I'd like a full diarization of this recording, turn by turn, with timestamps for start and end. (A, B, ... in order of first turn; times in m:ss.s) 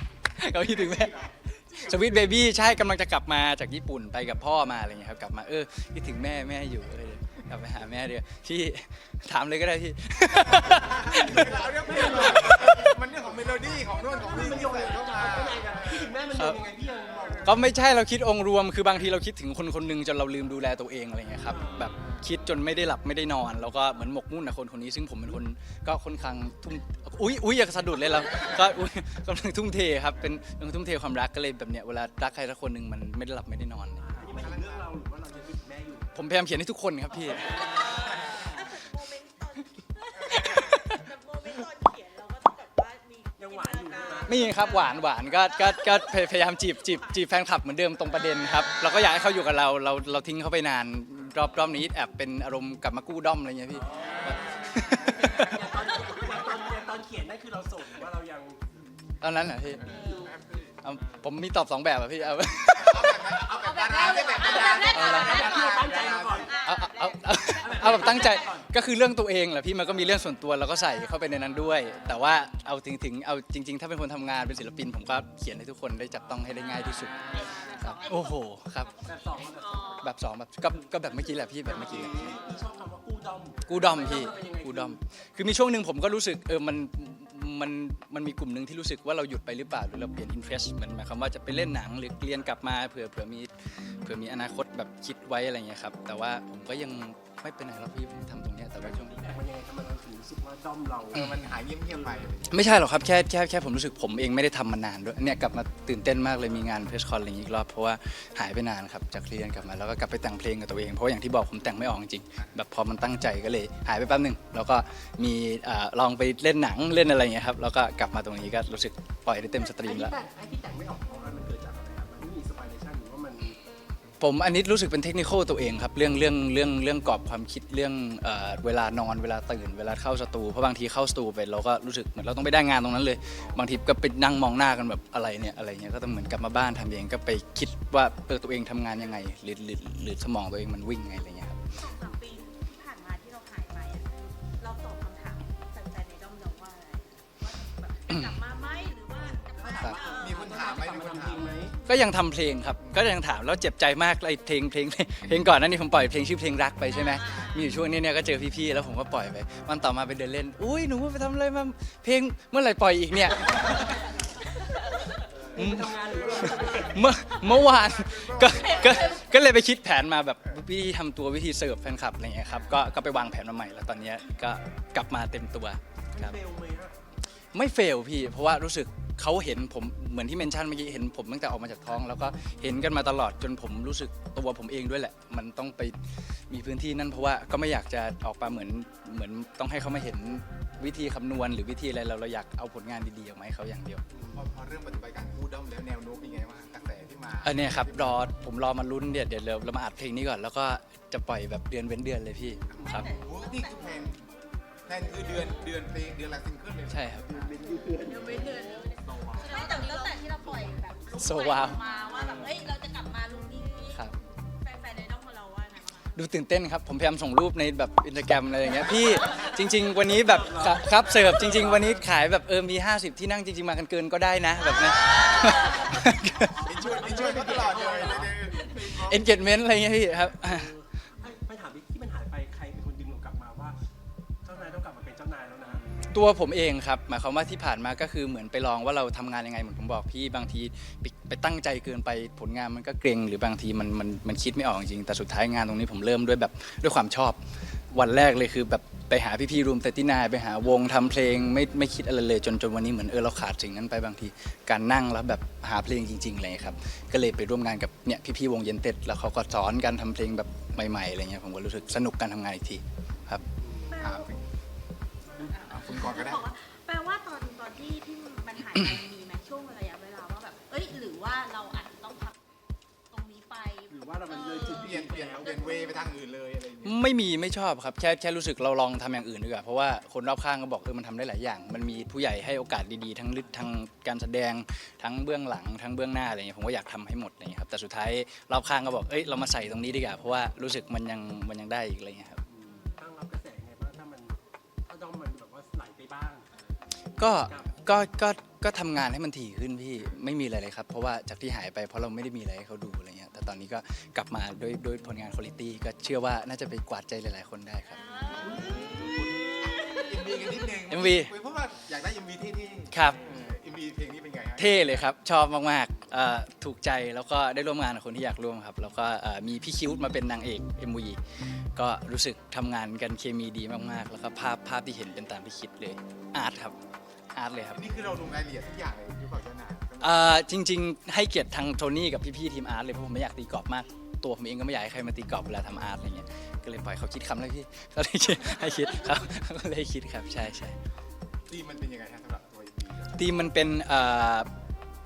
0:00.4-0:11.7 A
0:00.6-0:02.2 B
0:10.4-0:16.1 B
0:11.3-0:12.7 C
0:12.3-0:12.7 A
0:13.8-0:17.6 C
0:16.3-0:16.6 A
0:17.4-0:34.1 A
0:21.4-0:21.9 C
0:34.0-0:36.1 C
0:34.3-0:34.8 B
0:36.1-0:37.7 A
0:37.3-0:47.4 D
0:37.3-0:38.6 C
0:40.3-0:41.0 A
0:43.4-0:44.5 C
0:44.2-0:55.7 A
0:48.1-0:49.1 D
0:53.8-0:58.6 C
0:59.2-1:00.0 A
0:59.8-1:00.7 B
0:59.9-1:00.4 D
1:00.8-1:03.4 A
1:02.7-1:06.5 B
1:03.5-1:08.3 D
1:04.6-1:06.6 C
1:04.9-1:05.5 A
1:06.6-1:18.9 A
1:07.6-1:08.7 C
1:16.1-1:17.8 C
1:17.2-1:20.1 D
1:19.0-1:20.2 C
1:20.0-1:22.3 A
1:20.7-1:25.0 C
1:21.8-1:22.4 D
1:23.7-1:39.2 A
1:38.8-1:41.2 C
1:41.1-1:42.6 B
1:41.1-1:41.4 A
1:42.5-2:00.2 A
1:59.6-2:03.6 C
2:04.2-2:21.6 A
2:21.8-2:30.7 D
2:28.1-2:28.4 A
2:29.3-2:31.7 C
2:29.8-2:31.6 B
2:31.8-2:44.2 A
2:36.9-2:37.7 D
2:45.5-2:47.1 C
2:45.6-2:45.9 A
2:46.4-2:46.7 B
2:46.4-2:56.4 A
2:47.4-2:49.2 B
2:52.5-2:52.9 B
2:56.1-2:57.0 C
2:57.5-3:14.0 A
3:14.3-3:18.2 B
3:17.4-3:23.1 A
3:22.7-3:24.2 B
3:22.7-3:23.1 C
3:22.9-3:24.0 D
3:24.8-3:27.6 B
3:26.9-3:27.3 A
3:27.3-3:31.0 C
3:28.0-3:34.0 D
3:31.2-3:31.8 A
3:32.1-3:32.4 B
3:34.6-3:36.1 D
3:36.1-3:46.6 A
3:39.8-3:42.0 C
3:45.0-3:46.0 D
3:46.5-3:48.6 C
3:46.6-3:49.4 B
3:47.9-3:48.2 D
3:48.9-3:50.7 A
3:50.0-3:53.8 C
3:54.4-3:55.8 C
3:56.0-4:07.4 A
4:07.9-4:23.4 A
4:23.6-4:23.9 C
4:23.9-4:24.3 D
4:24.0-4:24.4 B
4:25.4-4:32.3 D
4:25.6-4:26.5 B
4:33.1-4:34.9 D
4:33.9-4:35.7 C
4:34.7-4:36.9 B
4:35.6-4:36.1 D
4:36.8-4:52.4 A
4:52.5-4:56.6 C
4:52.7-4:53.0 D
4:57.2-4:57.8 C
4:57.2-5:08.1 A
5:07.9-5:10.3 D
5:08.4-5:14.8 B
5:08.5-5:08.9 C
5:10.9-5:11.3 A
5:12.9-5:13.2 A
5:14.6-5:26.7 A
5:27.3-5:27.8 A
5:27.7-5:30.3 B
5:30.0-5:40.8 A
5:41.5-5:43.2 B
5:43.2-5:44.5 A